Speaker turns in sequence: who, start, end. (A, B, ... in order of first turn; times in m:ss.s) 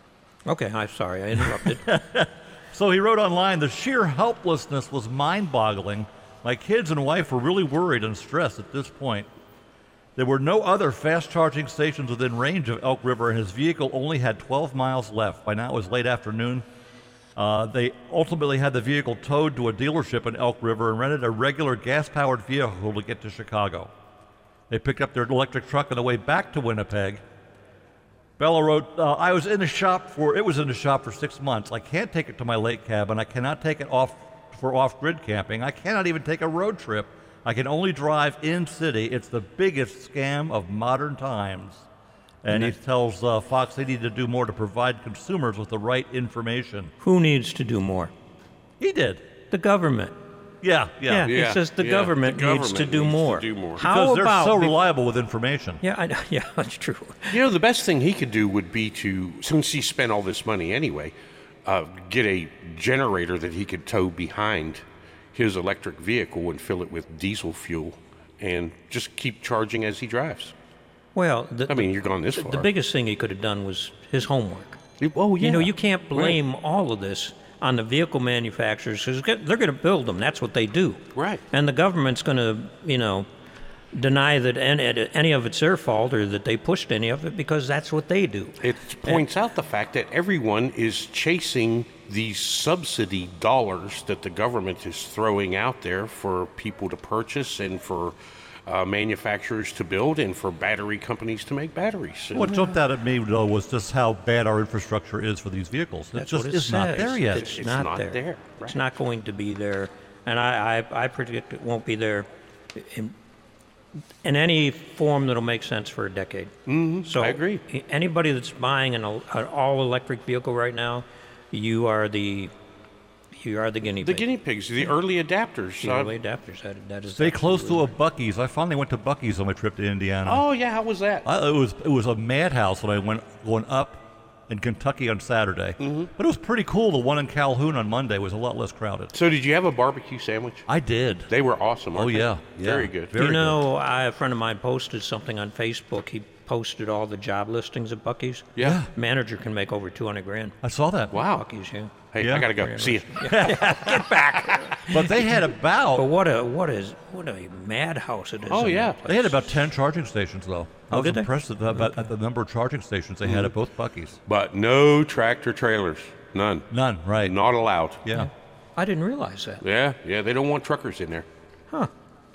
0:00.5-0:01.9 A
0:01.6-0:09.3 B
0:10.2-0:16.6 B
0:17.4-0:23.9 B
0:24.7-0:27.2 B
0:28.4-0:41.9 B
0:42.4-0:46.9 B
0:42.5-0:42.8 A
0:47.0-0:48.1 A
0:48.8-0:49.2 B
0:49.5-0:50.2 A
0:50.6-0:51.3 B
0:51.1-0:54.8 A
0:51.3-0:53.8 C
0:53.8-0:55.8 B
0:55.8-0:57.4 A
0:57.3-1:01.1 C
1:01.7-1:04.8 C
1:05.3-1:10.5 C
1:11.2-1:14.8 A
1:11.7-1:12.7 C
1:15.0-1:16.4 C
1:15.4-1:23.3 A
1:21.2-1:21.4 C
1:23.9-1:29.2 A
1:28.6-1:38.1 C
1:38.7-1:42.5 C
1:42.3-1:47.5 B
1:42.4-1:42.7 A
1:46.1-1:53.2 A
1:47.2-1:48.8 C
1:54.2-1:56.5 A
1:56.7-1:57.6 C
1:57.0-2:02.5 A
2:03.3-2:04.3 A
2:04.0-2:06.1 C
2:05.8-2:07.9 A
2:07.2-2:10.5 B
2:10.3-2:11.3 C
2:11.2-2:19.1 B
2:15.8-2:16.1 C
2:19.1-2:20.7 C
2:20.7-2:21.3 B
2:21.3-2:23.2 C
2:21.9-2:23.6 B
2:23.2-2:30.6 A
2:28.6-2:28.8 C
2:28.6-2:28.9 B
2:30.6-2:31.2 B
2:31.1-2:31.5 C
2:31.2-2:39.6 A
2:32.1-2:34.7 C
2:32.2-2:32.5 B
2:33.2-2:34.2 B
2:34.9-2:36.1 B
2:38.5-2:39.0 C
2:39.0-2:44.2 B
2:40.9-2:42.0 A
2:43.2-2:43.5 C
2:44.3-2:46.7 C
2:46.7-2:47.4 B
2:47.2-2:48.0 C
2:48.0-2:48.3 B
2:48.1-2:49.6 A
2:49.6-2:51.3 C